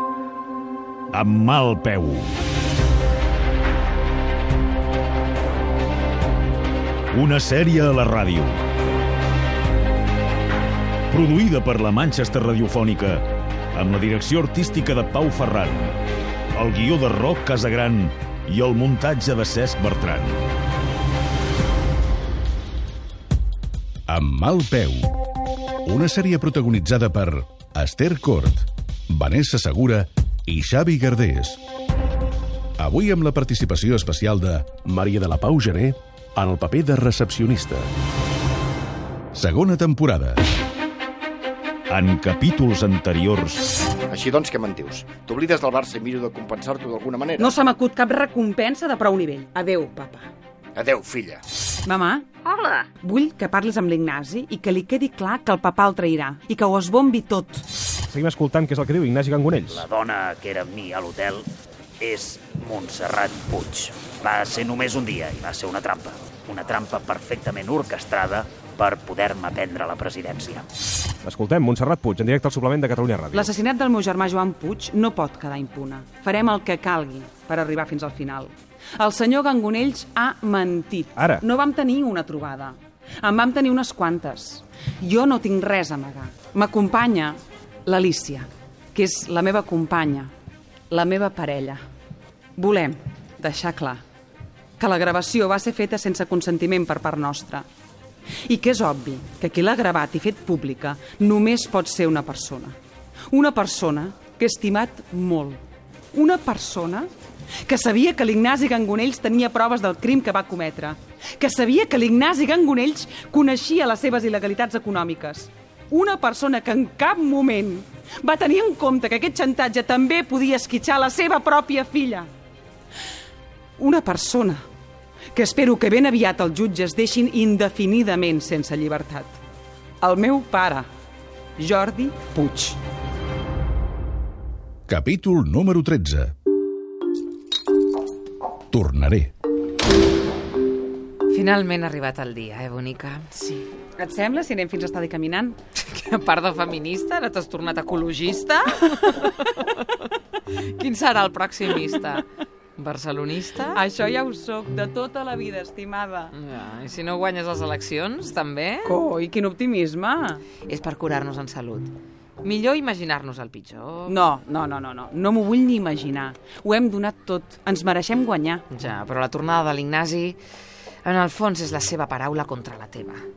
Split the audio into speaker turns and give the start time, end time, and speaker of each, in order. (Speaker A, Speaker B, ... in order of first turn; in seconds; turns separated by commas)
Speaker A: 1.1-2.4, Speaker A: 7.1-8.6, Speaker A: 11.1-13.2, Speaker A: 13.8-15.9, Speaker A: 16.6-20.4, Speaker B: 24.1-25.1, Speaker B: 25.9-31.6, Speaker B: 32.8-37.9, Speaker B: 39.3-40.4, Speaker A: 41.9-43.6, Speaker C: 44.1-47.5, Speaker D: 47.4-50.3, Speaker C: 50.8-51.4, Speaker D: 51.9-52.3, Speaker D: 53.0-57.7, Speaker E: 58.1-59.8, Speaker F: 59.7-61.5, Speaker F: 62.0-70.7, Speaker E: 71.2-73.5, Speaker D: 73.3-90.3, Speaker D: 90.9-91.8, Speaker D: 92.6-94.0, Speaker D: 94.8-97.7, Speaker D: 98.5-102.8, Speaker D: 103.3-105.6, Speaker D: 106.1-107.1, Speaker D: 107.6-122.3, Speaker D: 123.8-124.7, Speaker D: 125.3-129.4, Speaker D: 130.0-130.9, Speaker D: 131.6-132.8, Speaker B: 134.9-136.3, Speaker B: 138.7-139.3, Speaker G: 141.3-143.2, Speaker D: 143.3-145.6, Speaker G: 145.9-153.8, Speaker D: 153.7-156.3, Speaker G: 156.3-159.0, Speaker D: 158.8-160.4, Speaker G: 160.7-164.2, Speaker D: 164.1-168.7, Speaker G: 168.7-170.4, Speaker G: 171.0-173.2